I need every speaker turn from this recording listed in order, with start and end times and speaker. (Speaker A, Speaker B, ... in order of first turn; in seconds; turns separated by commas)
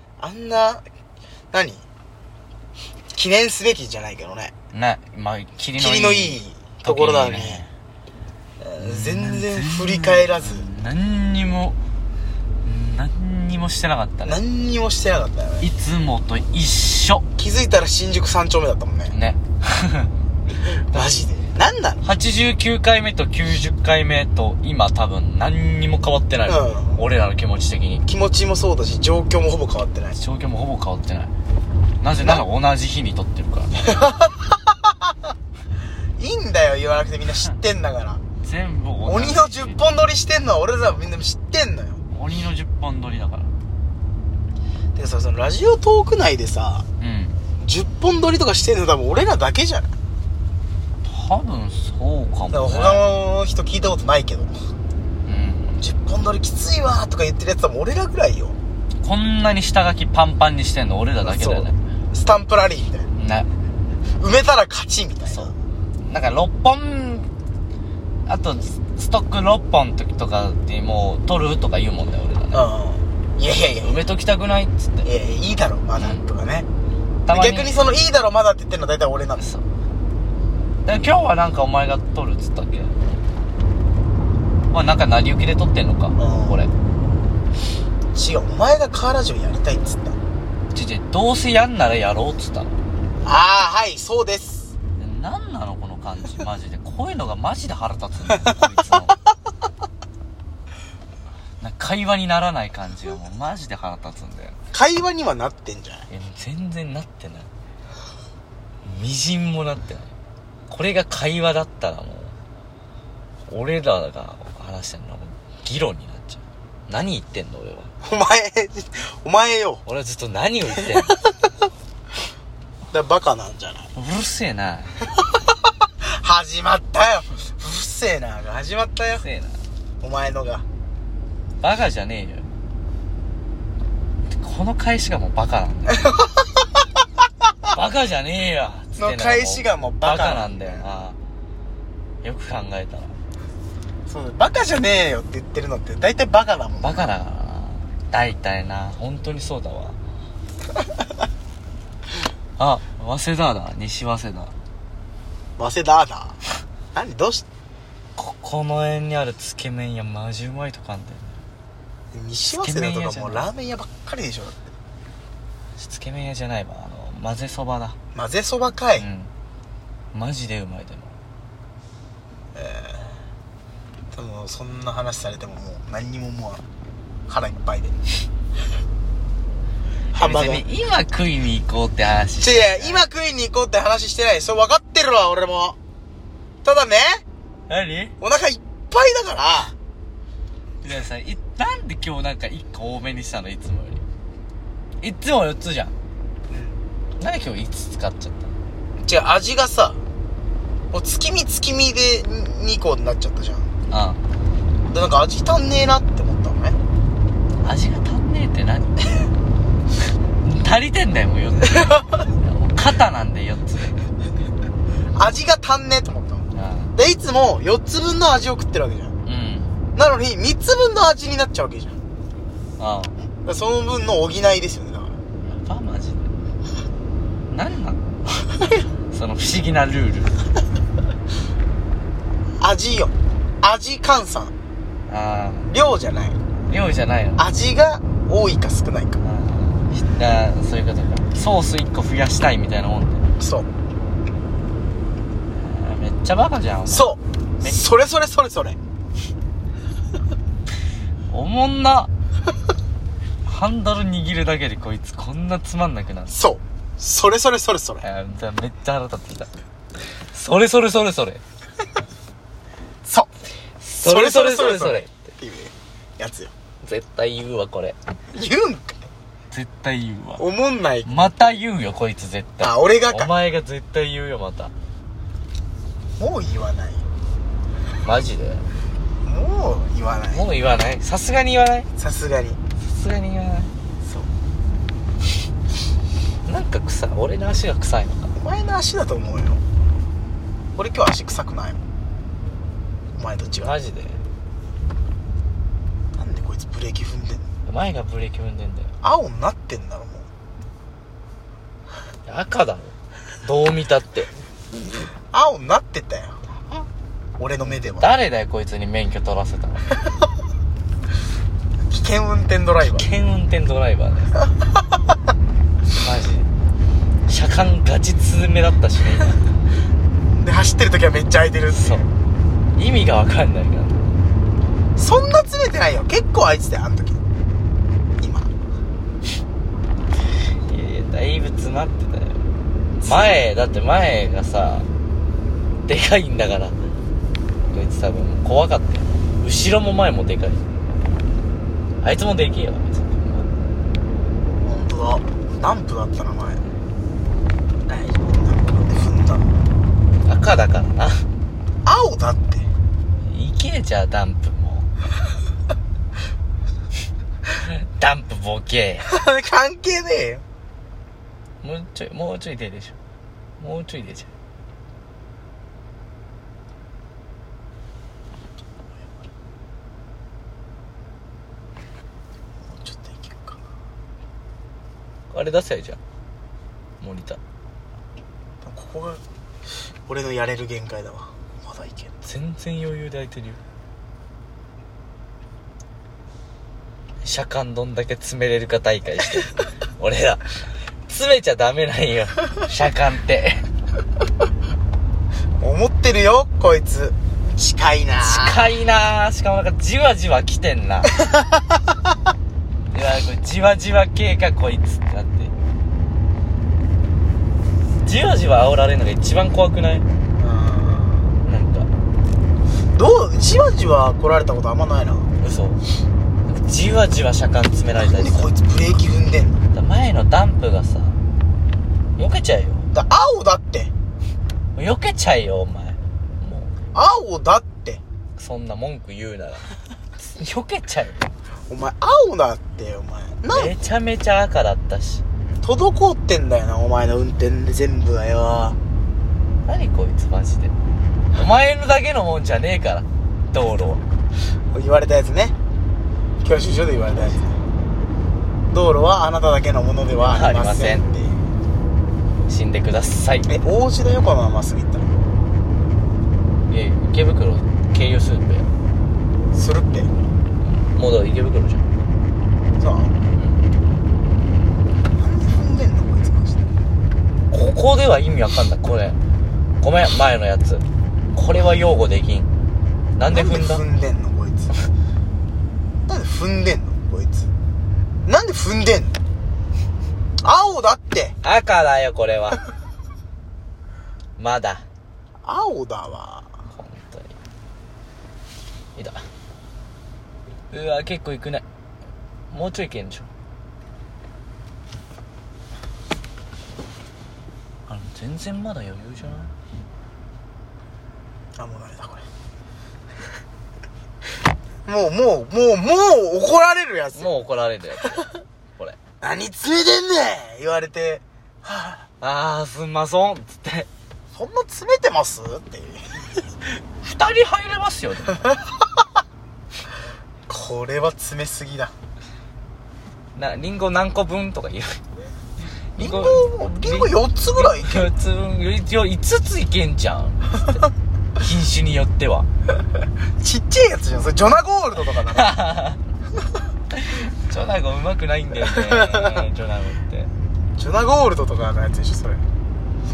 Speaker A: 0.2-0.8, Speaker A: 1.5-1.8, Speaker A: 3.1-4.5, Speaker B: 4.7-7.7, Speaker A: 5.8-7.7, Speaker A: 8.6-10.7, Speaker B: 8.8-11.8, Speaker B: 12.6-14.4, Speaker A: 14.2-15.7, Speaker B: 15.6-17.2, Speaker A: 17.4-19.1, Speaker B: 19.1-20.1, Speaker A: 20.9-22.0, Speaker B: 20.9-21.3, Speaker B: 22.0-28.0, Speaker A: 26.4-27.0, Speaker A: 28.1-30.2, Speaker B: 30.2-31.3, Speaker B: 32.0-33.8, Speaker A: 32.2-32.4, Speaker A: 33.8-34.9, Speaker A: 36.2-38.2, Speaker B: 38.4-39.8, Speaker A: 39.0-42.0, Speaker B: 42.1-43.5, Speaker A: 44.9-46.8, Speaker B: 47.0-47.4, Speaker A: 47.6-49.9, Speaker B: 51.0-53.0, Speaker A: 52.5-54.5, Speaker B: 55.2-55.8, Speaker A: 55.8-58.6, Speaker B: 59.0-61.8, Speaker A: 61.2-63.1, Speaker B: 63.2-63.5, Speaker A: 64.2-65.5, Speaker B: 65.3-67.3, Speaker B: 68.2-72.7, Speaker A: 72.5-74.0, Speaker B: 73.8-75.1, Speaker A: 75.0-76.7, Speaker B: 76.0-76.2, Speaker B: 77.2-77.9, Speaker A: 77.3-79.4, Speaker B: 79.4-79.6, Speaker B: 80.8-83.0, Speaker B: 84.7-86.7, Speaker A: 86.2-86.6, Speaker A: 88.1-90.2, Speaker B: 90.7-92.7, Speaker A: 93.2-94.7, Speaker B: 95.0-99.1, Speaker B: 101.6-104.6, Speaker A: 104.7-106.1, Speaker B: 106.1-107.5, Speaker B: 108.8-110.1, Speaker B: 110.7-112.3, Speaker B: 113.5-117.9, Speaker A: 118.0-119.8, Speaker B: 119.8-121.2, Speaker A: 120.7-121.3, Speaker A: 122.9-123.9, Speaker B: 123.9-125.0, Speaker A: 126.0-129.2, Speaker B: 129.1-129.6, Speaker A: 130.0-130.6, Speaker B: 131.6-132.5, Speaker B: 134.3-136.1, Speaker A: 135.9-136.8, Speaker B: 137.7-141.2, Speaker A: 138.9-140.9, Speaker B: 142.2-143.2, Speaker A: 144.1-147.1, Speaker B: 146.8-150.0, Speaker B: 152.6-154.5, Speaker A: 155.6-156.4, Speaker A: 156.9-157.4, Speaker B: 158.2-161.4, Speaker A: 162.1-164.7, Speaker B: 162.5-163.5, Speaker B: 165.8-167.9, Speaker A: 168.1-169.1, Speaker B: 169.0-169.3, Speaker B: 170.1-171.1, Speaker A: 172.5-173.1, Speaker A: 174.1-176.6, Speaker A: 177.3-177.9, Speaker B: 180.1-183.0, Speaker A: 180.1-180.6, Speaker A: 182.4-185.8, Speaker A: 186.6-187.2, Speaker B: 187.7-188.1, Speaker A: 188.2-189.7, Speaker B: 190.8-194.0, Speaker B: 195.0-195.9, Speaker A: 196.5-196.8, Speaker B: 197.2-198.5, Speaker A: 199.0-200.0, Speaker A: 200.9-203.7, Speaker B: 203.9-204.2, Speaker A: 204.9-206.8, Speaker B: 207.6-209.0, Speaker B: 210.4-214.0, Speaker A: 211.7-212.0, Speaker A: 215.1-216.4, Speaker B: 216.5-216.9, Speaker A: 216.9-219.1, Speaker B: 219.2-219.7, Speaker A: 219.9-221.9, Speaker B: 222.8-223.1, Speaker A: 223.4-225.2, Speaker B: 225.4-226.3, Speaker B: 227.5-228.0, Speaker B: 229.1-230.4, Speaker A: 232.6-234.5, Speaker B: 235.1-235.7, Speaker A: 235.7-236.4, Speaker B: 236.7-237.4, Speaker A: 237.4-239.2, Speaker B: 239.2-243.3, Speaker A: 243.4-243.7, Speaker B: 245.5-247.8, Speaker A: 246.9-248.8, Speaker B: 251.3-252.1, Speaker B: 253.4-256.4, Speaker A: 256.3-258.1, Speaker B: 258.0-259.5, Speaker B: 260.2-261.4, Speaker A: 263.0-263.3, Speaker B: 263.8-265.3, Speaker A: 264.0-266.5, Speaker B: 266.8-268.0, Speaker A: 268.3-269.1, Speaker B: 269.5-270.4, Speaker A: 270.4-271.6, Speaker B: 271.1-274.7, Speaker A: 272.6-273.3, Speaker A: 276.2-277.0, Speaker B: 278.0-278.6, Speaker A: 279.2-280.4, Speaker B: 280.3-281.9, Speaker A: 282.0-282.6, Speaker B: 282.8-283.7, Speaker A: 284.0-284.3, Speaker B: 286.4-288.3, Speaker A: 288.4-289.6, Speaker A: 290.8-291.8, Speaker A: 293.1-293.8, Speaker B: 293.6-294.2, Speaker A: 296.1-297.4, Speaker B: 297.6-298.9, Speaker A: 299.0-300.3, Speaker B: 302.2-304.3, Speaker A: 305.3-306.5, Speaker A: 307.4-308.1, Speaker B: 307.6-309.9, Speaker A: 311.9-313.1, Speaker B: 312.8-314.3, Speaker B: 315.9-316.5, Speaker B: 317.3-319.4, Speaker A: 320.3-322.0, Speaker B: 321.7-322.1, Speaker B: 322.8-324.1, Speaker A: 325.0-327.2, Speaker A: 328.2-328.5, Speaker B: 330.6-332.4, Speaker B: 333.0-334.9, Speaker A: 333.0-333.4, Speaker B: 335.9-336.8, Speaker B: 337.7-340.6, Speaker B: 342.0-343.5, Speaker A: 344.6-346.6, Speaker A: 347.9-349.5, Speaker B: 350.2-351.2, Speaker A: 351.8-352.7, Speaker B: 353.2-354.9, Speaker B: 357.5-359.1, Speaker A: 359.1-360.4, Speaker B: 361.6-362.9, Speaker B: 363.6-364.3, Speaker A: 372.6-373.6, Speaker B: 375.3-376.0, Speaker B: 377.0-377.4, Speaker A: 378.6-379.2, Speaker A: 380.1-382.1, Speaker B: 382.2-383.6, Speaker B: 387.2-390.5, Speaker B: 391.1-393.6, Speaker A: 395.6-398.7, Speaker B: 398.2-401.1, Speaker A: 401.2-401.6, Speaker B: 402.9-405.5, Speaker B: 408.0-410.0, Speaker A: 410.4-411.3, Speaker B: 411.4-411.9, Speaker A: 412.9-415.3, Speaker B: 415.4-415.8, Speaker B: 416.5-418.5, Speaker A: 417.9-419.6, Speaker B: 419.7-421.2, Speaker B: 422.2-422.9, Speaker A: 422.9-423.9, Speaker B: 424.8-426.7, Speaker A: 426.9-428.0, Speaker B: 428.4-429.6, Speaker B: 430.2-431.3, Speaker A: 431.7-433.7, Speaker B: 433.5-435.2, Speaker A: 435.6-438.8, Speaker B: 439.6-440.7, Speaker B: 441.3-444.0, Speaker A: 444.7-445.5, Speaker A: 446.4-447.6, Speaker A: 448.7-451.4, Speaker B: 450.2-451.1, Speaker B: 452.5-453.5, Speaker A: 453.5-455.1, Speaker B: 456.7-458.7, Speaker A: 459.5-460.1, Speaker B: 460.6-461.9, Speaker A: 462.8-463.1, Speaker B: 463.4-463.6, Speaker A: 465.1-466.6, Speaker B: 467.5-469.2, Speaker B: 469.8-472.5, Speaker B: 473.2-473.8, Speaker A: 473.3-474.7, Speaker A: 476.1-477.5, Speaker A: 478.2-479.1, Speaker A: 480.4-481.3, Speaker B: 481.4-482.6, Speaker B: 484.4-484.9, Speaker A: 485.4-486.5, Speaker B: 486.7-487.3, Speaker B: 488.9-489.2, Speaker B: 490.7-491.6, Speaker B: 492.5-493.3, Speaker B: 497.9-499.5, Speaker A: 501.6-502.2, Speaker A: 504.9-507.3, Speaker B: 507.1-509.0, Speaker A: 509.2-512.1, Speaker B: 512.2-513.9, Speaker A: 514.3-516.3, Speaker B: 517.0-518.5, Speaker A: 520.5-521.9, Speaker B: 523.3-525.0, Speaker B: 525.9-530.9, Speaker A: 526.0-528.1, Speaker B: 531.4-532.5, Speaker A: 533.4-535.6, Speaker B: 535.3-536.0, Speaker B: 536.9-540.3, Speaker A: 538.7-539.4, Speaker A: 540.8-542.4